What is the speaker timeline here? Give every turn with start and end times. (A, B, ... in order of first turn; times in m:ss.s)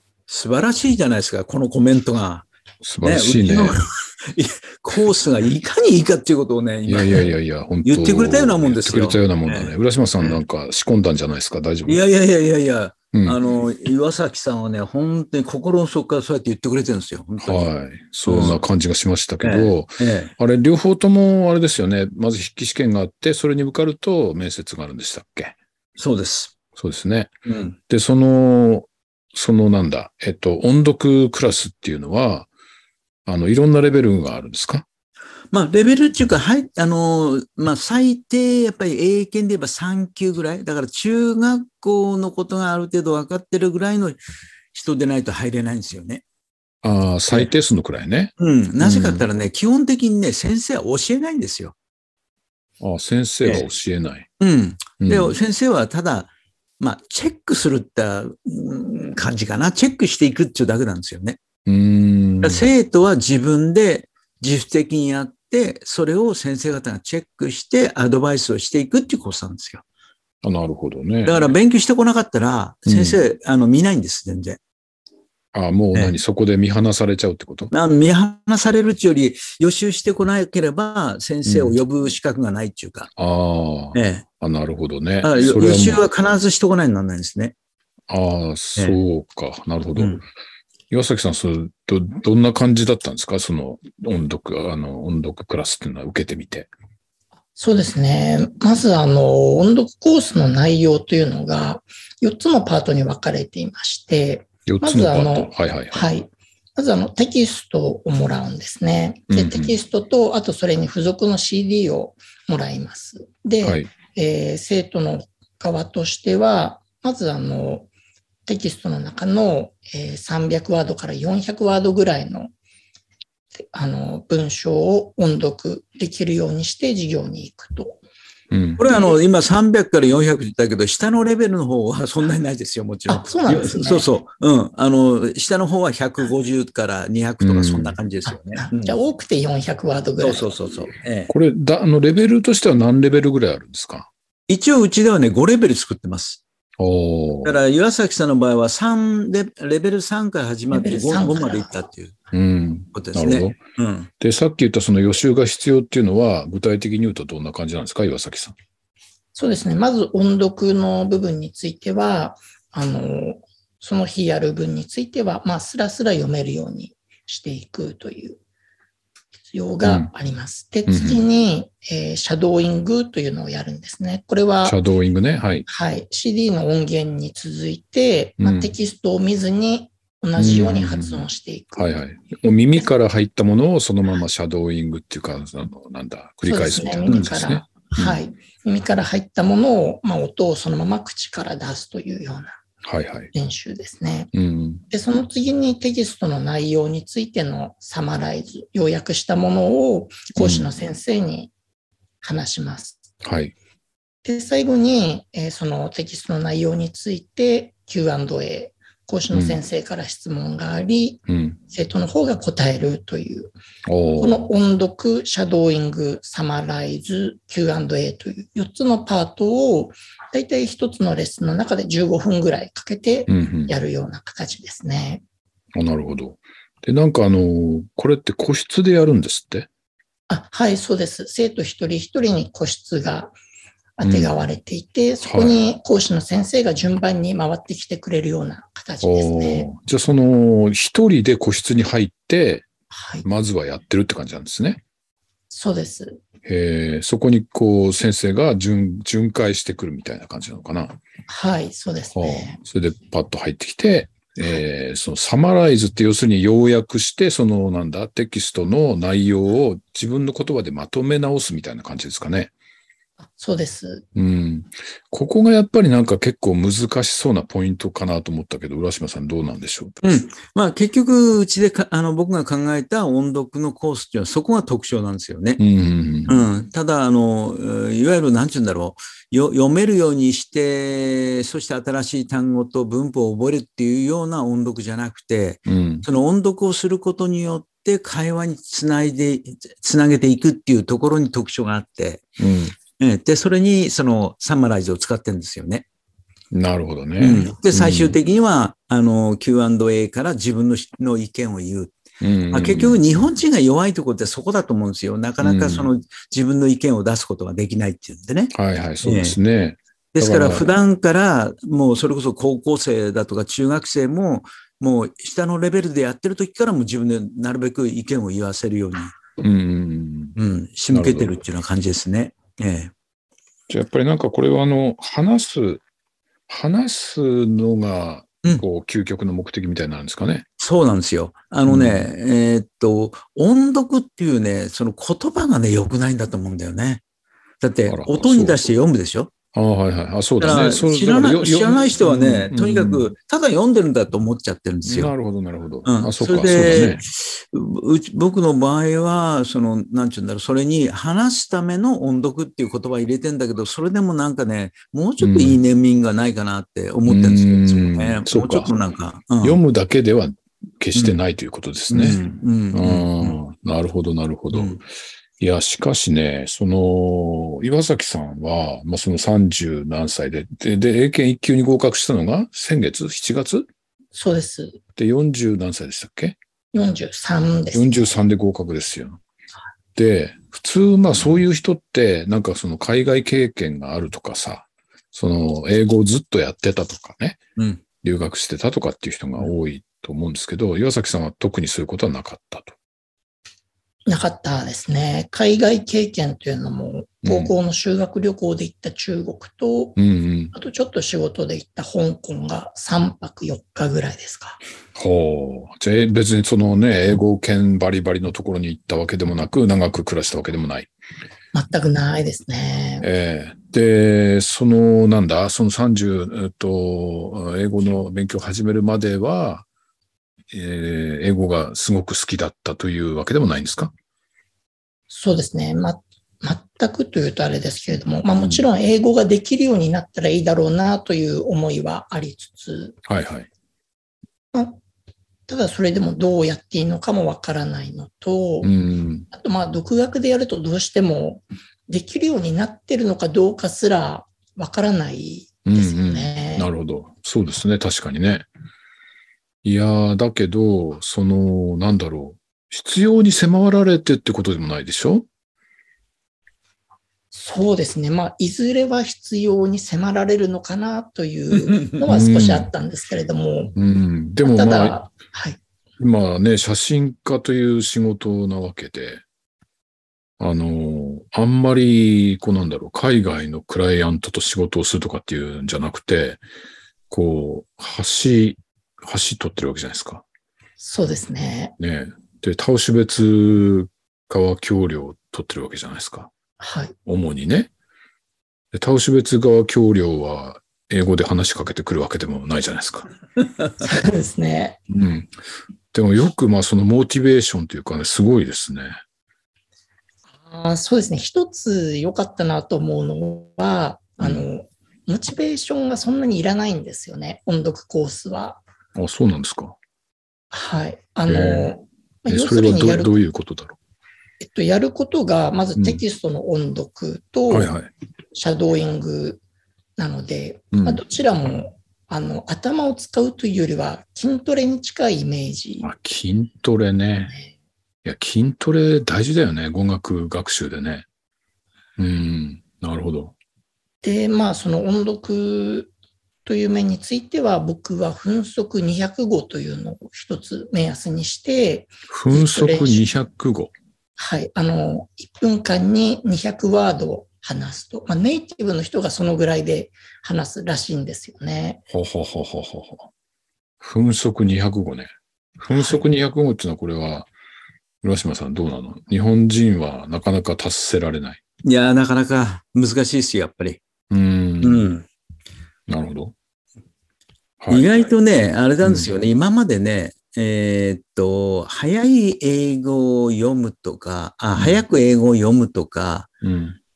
0:00.3-0:02.5 A
0:02.8-0:03.8 B
0:03.0-0:07.3 A
0:06.9-0:12.0 B
0:07.8-0:10.4 A
0:11.9-0:17.7 A
0:13.1-0:13.4 B
0:17.4-0:25.6 B
0:18.2-0:18.6 A
0:19.4-0:20.3 A
0:26.0-0:26.6 A
0:26.8-0:27.3 B
0:27.5-0:27.8 A
0:27.9-0:32.5 B
0:33.3-0:34.9 B
0:35.5-0:44.2 A
0:44.7-0:46.2 A
0:46.8-0:49.3 B
0:48.4-0:51.8 A
0:52.8-0:54.3 B
0:54.4-1:01.4 A
0:55.0-0:55.4 B
1:01.7-1:02.7 B
1:02.4-1:09.8 A
1:10.4-1:11.5 B
1:11.2-1:14.6 A
1:12.9-1:13.2 B
1:15.5-1:17.7 B
1:17.7-1:23.1 A
1:21.4-1:21.8 B
1:23.2-1:26.0 B
1:23.9-1:24.2 A
1:25.2-1:27.5 A
1:28.1-1:30.2 B
1:30.0-1:30.2 A
1:30.9-1:36.7 B
1:37.6-1:57.9 C
1:44.7-1:46.0 B
1:49.3-1:49.8 B
1:53.6-1:53.9 B
1:58.5-2:02.5 C
2:03.6-2:08.0 C
2:08.5-2:08.8 B
2:08.8-2:19.0 A
2:08.9-2:09.2 C
2:13.1-2:14.1 C
2:17.4-2:18.0 B
2:18.3-2:20.6 C
2:20.2-2:21.3 A
2:21.3-2:24.1 B
2:24.5-2:26.4 A
2:26.8-2:27.6 B
2:27.4-2:32.1 A
2:30.7-2:31.7 C
2:32.3-2:33.6 B
2:32.9-2:34.1 A
2:34.2-2:38.6 B
2:39.4-2:48.4 C
2:49.5-2:54.8 C
2:49.8-2:50.1 B
2:50.9-2:51.2 B
2:54.6-2:55.7 B
2:55.7-3:01.9 C
2:58.4-2:58.7 B
3:00.4-3:08.2 B
3:06.4-3:12.6 C
3:12.8-3:13.3 B
3:13.3-3:14.3 C
3:14.3-3:14.8 B
3:14.9-3:21.5 C
3:20.4-3:20.7 B
3:22.2-3:23.0 C
3:23.2-3:23.5 B
3:24.2-3:33.5 C
3:29.3-3:29.6 B
3:31.3-3:31.6 B
3:33.9-3:34.4 B
3:34.2-3:45.2 C
3:43.3-3:43.7 B
3:45.8-3:49.7 B
3:50.3-3:53.4 C
3:54.0-3:59.7 C
3:54.0-3:54.3 B
3:55.2-3:55.6 B
3:59.0-4:02.7 B
4:02.9-4:03.2 C
4:03.2-4:04.8 B
4:05.5-4:06.2 C
4:06.4-4:11.0 B
4:11.3-4:12.6 C
4:12.2-4:22.5 B
4:23.2-4:24.0 C
4:24.2-4:30.0 B
4:30.0-4:35.6 A
4:35.6-4:36.5 B
4:36.3-4:52.3 A
4:45.7-4:46.1 B
4:52.4-4:52.8 B
4:53.0-4:55.8 A
4:56.5-4:58.2 B
4:57.2-5:02.0 A
5:02.2-5:03.0 B
5:02.5-5:09.4 A
5:05.4-5:05.9 B
5:08.5-5:10.7 B
5:10.2-5:19.2 A
5:19.4-5:20.4 B
5:20.4-5:22.9 A
5:20.9-5:21.4 B
5:23.7-5:25.8 B
5:26.5-5:30.5 B
5:30.6-5:37.0 A
5:31.7-5:32.0 B
5:37.6-5:39.3 A
5:37.9-5:38.7 B
5:39.5-5:43.1 B
5:40.4-5:45.1 A
5:44.8-5:47.0 B
5:45.9-5:59.6 A
5:55.2-5:55.6 B
5:57.1-5:58.7 B
5:59.4-6:02.2 B
6:01.9-6:03.4 A
6:02.7-6:04.9 B
6:04.5-6:04.8 A
6:05.4-6:13.7 B
6:14.1-6:14.8 C
6:15.0-6:16.4 B
6:16.7-6:18.1 C
6:17.7-6:19.2 B
6:20.0-6:27.4 B
6:28.0-6:32.8 B
6:34.1-6:40.0 C
6:37.2-6:37.5 B
6:40.0-6:40.5 B
6:40.5-6:44.6 C
6:45.0-6:50.9 B
6:51.5-6:53.1 C
6:53.0-6:59.7 B
7:00.5-7:03.9 B
7:05.1-7:13.0 C
7:13.0-7:13.5 B
7:14.5-7:14.8 C
7:15.5-7:18.7 C
7:18.6-7:19.3 B
7:19.3-7:26.7 C
7:25.6-7:28.5 B
7:29.6-7:35.3 B
7:37.3-7:43.8 C
7:42.1-7:42.7 B
7:43.8-7:45.0 B
7:44.4-7:45.6 C
7:46.0-7:49.2 B
7:50.4-7:56.4 B
7:57.1-8:00.2 B
8:00.8-8:01.8 C
8:01.8-8:06.3 B
8:06.6-8:06.9 C
8:07.1-8:07.7 B
8:08.7-8:13.1 B
8:13.8-8:14.8 C
8:14.9-8:15.3 B
8:15.9-8:19.0 B
8:20.4-8:28.6 C
8:24.2-8:24.5 B
8:29.0-8:29.8 B
8:30.5-8:33.1 C
8:31.3-8:31.8 B
8:32.3-8:33.8 B
8:34.4-8:37.7 C
8:37.5-8:37.9 B
8:38.3-8:39.4 C
8:40.0-8:45.9 C
8:40.7-8:41.0 B
8:45.8-8:47.4 B
8:48.0-8:51.1 B
8:52.0-8:53.4 B
8:54.0-8:55.9 C
8:56.4-9:03.1 C
9:02.1-9:03.7 B
9:04.2-9:11.8 C
9:11.9-9:13.1 B
9:13.8-9:17.3 B
9:15.7-9:16.0 C
9:18.0-9:21.4 B
9:21.6-9:23.8 A
9:24.1-9:24.9 B
9:24.6-9:25.0 A
9:25.9-9:26.3 B
9:27.6-9:27.9 B
9:27.7-9:36.3 A
9:28.8-9:29.1 B
9:34.6-9:34.8 B
9:36.4-9:36.8 B